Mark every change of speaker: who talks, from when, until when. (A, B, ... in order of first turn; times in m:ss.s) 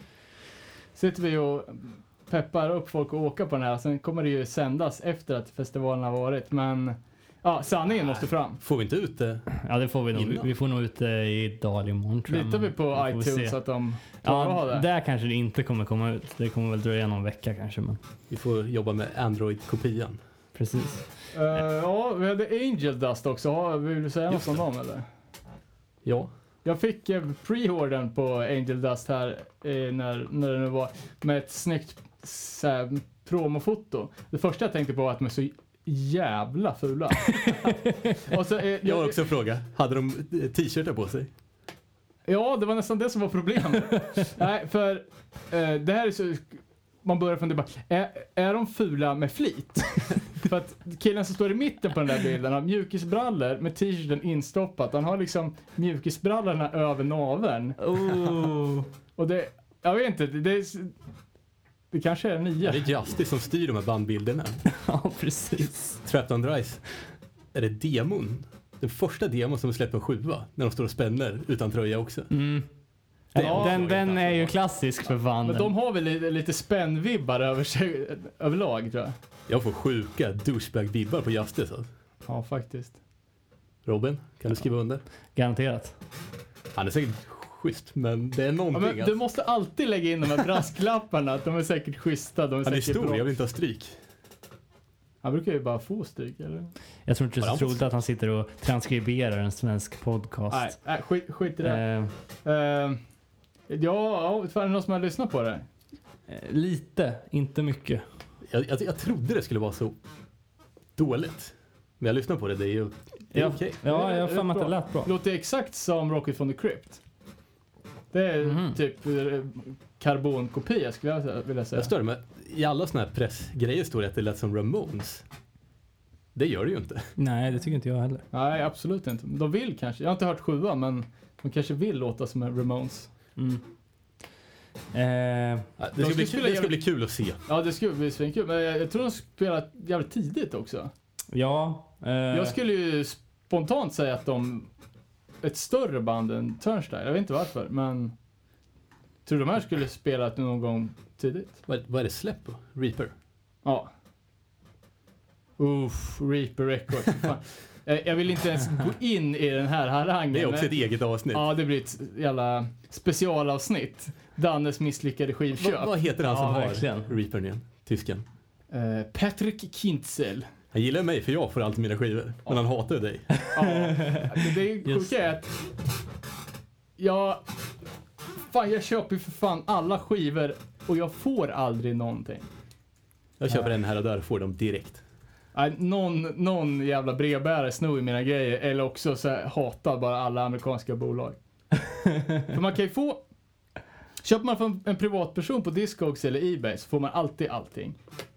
0:01.0-0:08.6 A
0:08.6-0:09.5 B
0:09.6-0:13.6 C
0:10.1-0:10.5 B
0:12.3-0:14.8 A
0:14.2-0:18.0 C
0:18.3-0:20.2 B
0:20.5-0:21.0 C
0:21.3-0:25.0 A
0:26.0-0:26.3 B
0:26.6-0:39.2 A
0:37.4-0:38.2 C
0:38.8-0:41.3 B
0:42.2-0:57.8 A
0:57.8-0:58.9 C
0:59.2-1:00.9 A
1:01.9-1:02.8 A
1:02.6-1:04.6 B
1:04.7-1:06.0 C
1:06.0-1:06.8 B
1:07.5-1:12.3 B
1:12.3-1:12.7 C
1:13.3-1:15.7 C
1:13.3-1:14.5 B
1:13.4-1:14.0 A
1:15.4-1:19.1 A
1:19.5-1:21.9 B
1:22.2-1:23.0 A
1:23.8-1:25.0 B
1:25.3-1:25.9 C
1:26.7-1:29.2 B
1:28.7-1:33.3 A
1:32.6-1:33.9 B
1:35.2-1:36.7 A
1:37.0-1:40.7 C
1:37.4-1:37.9 B
1:40.5-1:41.8 A
1:41.6-1:42.1 C
1:42.4-1:43.0 A
1:43.7-1:45.6 A
1:46.3-1:48.0 C
1:48.4-1:50.0 B
1:51.0-1:53.8 B
1:53.3-1:55.1 C
1:53.8-1:57.0 A
1:58.1-2:01.9 A
1:58.4-1:58.8 C
2:01.7-2:05.2 B
2:06.3-2:07.1 B
2:07.2-2:08.2 C
2:08.3-2:13.1 A
2:13.4-2:13.6 C
2:14.9-2:15.7 C
2:15.8-2:17.4 B
2:16.0-2:16.8 A
2:17.4-2:20.9 A
2:21.3-2:22.5 C
2:22.3-2:24.7 A
2:25.4-2:28.1 A
2:29.2-2:31.6 A
2:31.7-2:33.1 B
2:33.6-2:33.9 A
2:35.6-2:40.7 A
2:40.3-2:41.5 B
2:41.3-2:45.9 A
2:45.6-2:48.2 B
2:46.2-2:47.1 C
2:48.7-2:50.5 A
2:50.7-2:53.4 B
2:53.4-2:54.3 C
2:53.5-2:55.5 A
2:54.8-2:55.1 C
2:57.0-2:57.4 A
2:58.5-3:02.5 A
3:03.4-3:05.0 B
3:05.5-3:11.4 A
3:12.4-3:13.2 A
3:14.2-3:18.0 A